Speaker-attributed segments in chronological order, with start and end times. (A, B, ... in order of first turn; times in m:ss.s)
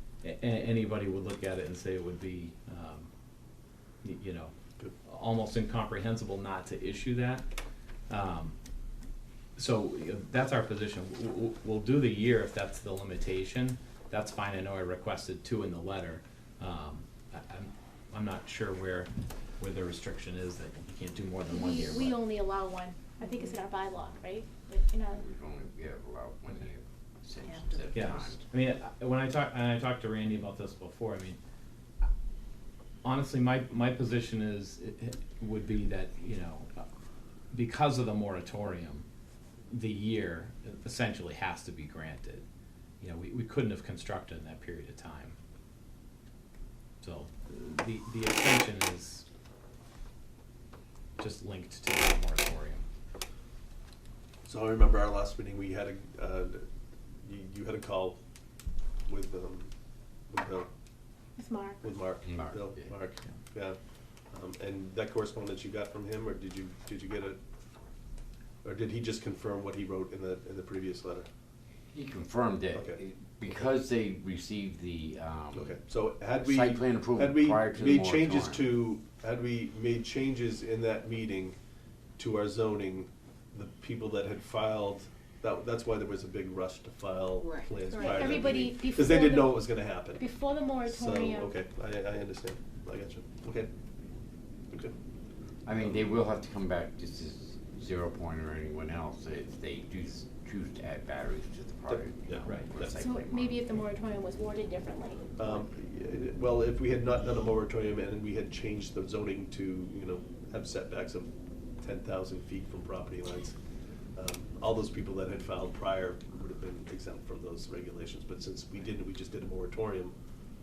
0:00.2-0:03.1 A
0:04.0-0:04.5 A
0:05.0-0:07.4 A
0:08.1-0:08.6 A
0:09.6-0:22.2 A
0:21.5-0:25.2 B
0:25.1-0:28.4 C
0:27.9-0:31.4 A
0:33.0-0:36.8 A
0:37.5-0:39.0 A
0:39.7-0:42.4 A
0:43.0-0:45.4 A
0:47.0-0:49.2 A
0:51.2-0:52.8 A
0:54.4-0:56.6 D
0:57.2-0:58.2 D
0:59.1-0:59.7 D
1:00.3-1:00.7 D
1:01.4-1:01.8 B
1:01.8-1:03.8 D
1:02.3-1:02.8 C
1:04.3-1:07.4 D
1:08.6-1:11.3 D
1:11.9-1:15.8 C
1:12.7-1:13.0 D
1:15.5-1:21.6 D
1:16.4-1:18.6 C
1:22.2-1:30.3 D
1:27.9-1:31.5 B
1:30.8-1:33.7 D
1:35.6-1:43.6 C
1:41.9-1:42.9 D
1:43.0-1:45.6 B
1:45.4-1:53.6 D
1:54.1-2:00.1 D